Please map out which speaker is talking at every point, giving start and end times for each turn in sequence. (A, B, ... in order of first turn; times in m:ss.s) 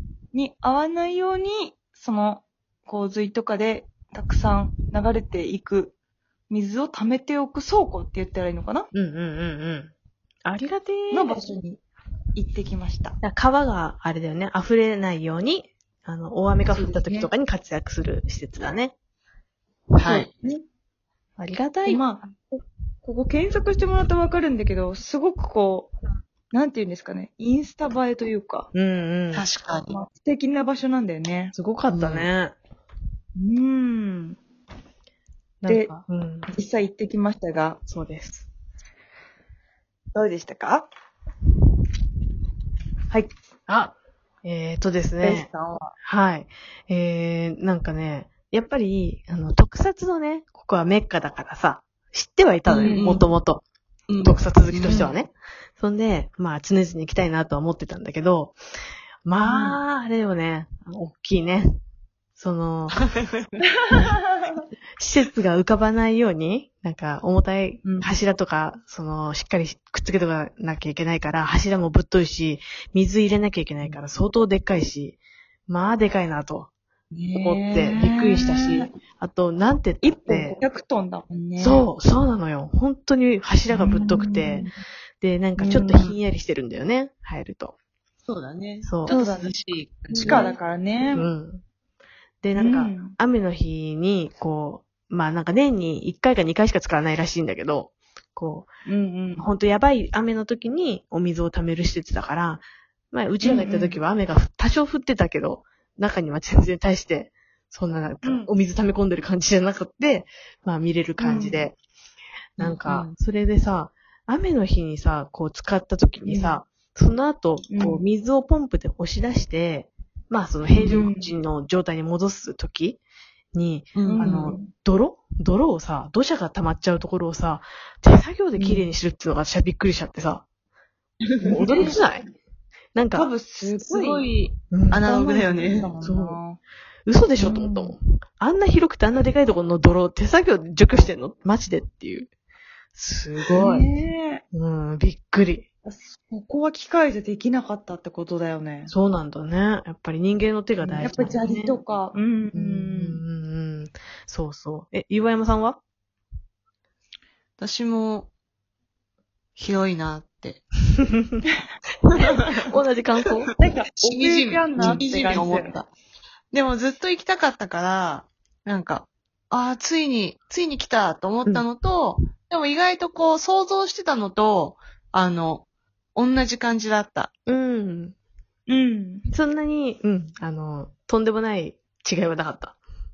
0:00.3-0:05.9 A
0:06.5-0:08.9 A
0:08.9-0:09.9 B
0:10.4-0:11.4 B
0:11.1-0:11.8 A
0:12.3-0:13.2 A
0:13.2-0:18.9 B
0:16.7-0:17.3 A
0:20.0-0:20.3 C
0:20.1-0:20.6 A
0:21.4-0:22.0 B
0:21.8-0:25.9 A
0:26.5-0:28.7 A
0:28.7-0:29.4 B
0:29.3-0:29.9 C
0:29.9-0:31.5 A
0:31.5-0:32.6 B
0:31.9-0:32.3 C
0:33.4-0:34.4 A
0:35.6-0:36.5 B
0:35.7-0:35.9 A
0:36.5-0:37.8 A
0:37.9-0:38.5 B
0:40.1-0:40.9 A
0:43.7-0:45.5 B
0:45.2-0:45.9 A
0:46.0-0:53.6 B
0:52.7-0:53.2 A
0:52.7-0:53.3 C
0:54.1-0:55.1 C
0:54.2-0:58.6 B
0:59.2-1:01.8 B
0:59.4-0:59.8 A
1:02.4-1:03.0 B
1:03.6-1:04.6 A
1:05.0-1:16.7 B
1:07.8-1:08.2 A
1:17.1-1:18.9 A
1:17.3-1:20.6 B
1:20.0-1:21.8 A
1:21.6-1:24.7 B
1:23.7-1:24.8 A
1:25.2-1:27.8 B
1:25.6-1:26.1 A
1:28.2-1:30.5 C
1:28.8-1:29.1 B
1:29.0-1:29.5 A
1:30.1-1:30.6 B
1:30.2-1:31.3 A
1:31.1-1:31.6 B
1:32.4-1:38.7 B
1:32.6-1:33.1 A
1:38.8-1:39.5 A
1:39.4-1:51.8 B
1:43.4-1:44.0 A
1:48.2-1:48.5 A
1:51.2-1:51.6 A
1:52.6-2:03.0 B
1:52.6-1:53.1 C
1:56.2-1:56.6 A
1:57.7-1:58.0 A
2:00.8-2:01.3 A
2:03.5-2:10.4 B
2:03.9-2:04.5 C
2:04.0-2:04.7 A
2:08.6-2:08.9 A
2:11.3-2:11.9 C
2:11.4-2:12.2 B
2:11.6-2:12.0 A
2:12.9-2:13.3 B
2:13.1-2:14.3 A
2:13.6-2:15.9 C
2:14.7-2:15.1 B
2:15.0-2:16.6 A
2:16.0-2:16.4 B
2:17.1-2:22.3 B
2:17.4-2:18.0 A
2:22.9-2:23.9 B
2:23.5-2:24.4 A
2:24.5-2:25.7 B
2:25.8-2:28.9 A
2:28.9-2:31.8 B
2:30.8-2:33.2 A
2:32.5-2:35.8 B
2:37.6-2:38.3 C
2:39.6-2:40.6 C
2:41.0-2:41.4 B
2:42.4-2:43.5 B
2:43.6-2:45.8 A
2:44.0-2:45.9 C
2:44.8-2:45.0 B
2:46.5-2:55.6 C
2:56.2-2:57.3 C
2:57.5-2:58.1 B
2:58.7-2:59.3 A
2:59.3-3:02.8 B